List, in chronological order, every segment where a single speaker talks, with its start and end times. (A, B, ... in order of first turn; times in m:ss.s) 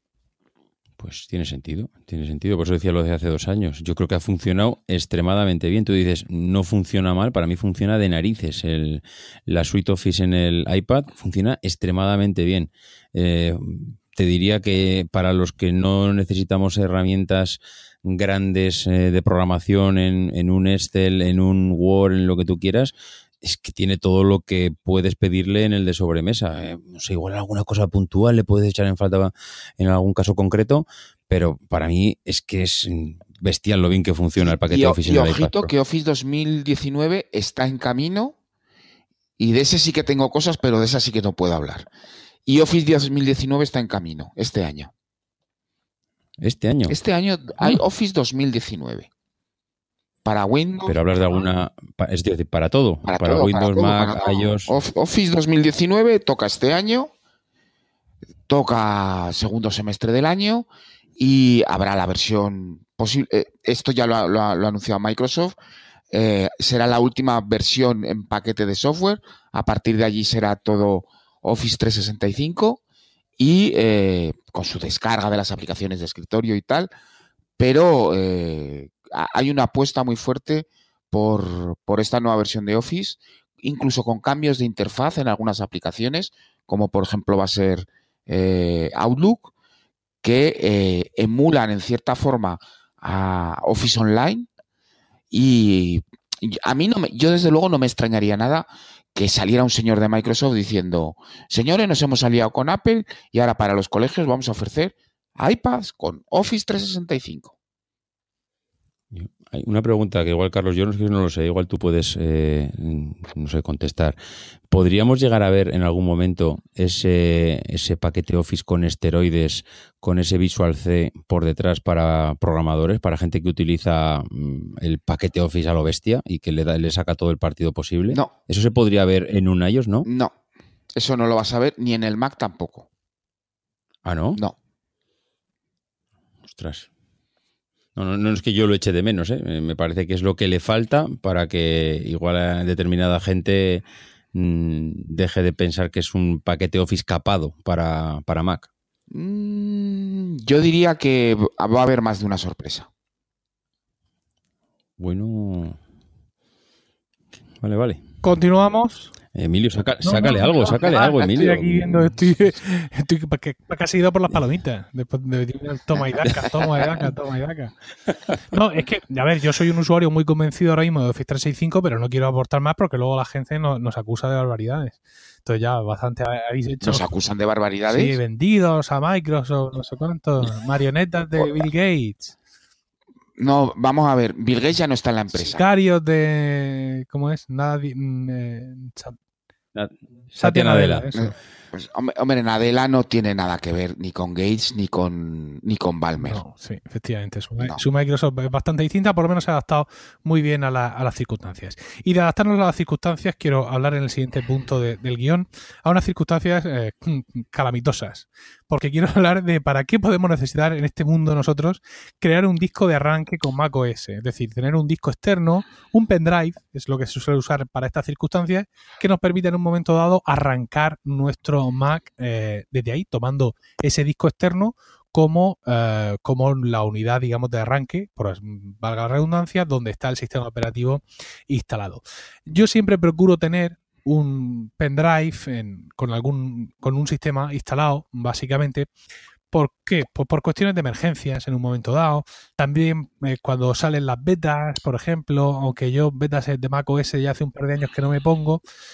0:01.0-0:35.7 A
0:34.4-0:38.4 B
0:39.4-0:41.9 B
0:42.4-0:44.9 B
0:46.4-0:47.0 A
0:46.9-0:49.1 B
0:50.2-0:51.0 B
0:50.8-0:54.7 A
0:53.0-0:57.1 B
0:58.5-1:05.6 B
1:06.1-1:12.8 B
1:13.4-1:16.9 B
1:17.6-1:29.5 B
1:30.2-1:34.5 B
1:35.3-1:47.5 B
1:49.1-1:54.2 A
1:54.7-2:10.1 A
2:10.0-2:10.3 B
2:11.0-2:12.9 B
2:14.0-2:14.4 A
2:16.4-2:16.9 A
2:18.0-2:28.7 A
2:29.1-2:32.9 B
2:35.0-2:35.8 A
2:37.6-2:38.0 A
2:38.2-2:39.1 C
2:39.3-2:42.2 A
2:40.0-2:47.7 C
2:48.5-2:57.1 C
2:56.8-2:58.2 B
2:57.9-3:02.3 C
3:03.4-3:05.6 B
3:05.3-3:09.2 C
3:09.7-3:11.1 A
3:10.4-3:11.3 C
3:11.1-3:16.4 B
3:16.2-3:58.9 C
3:59.5-4:08.6 C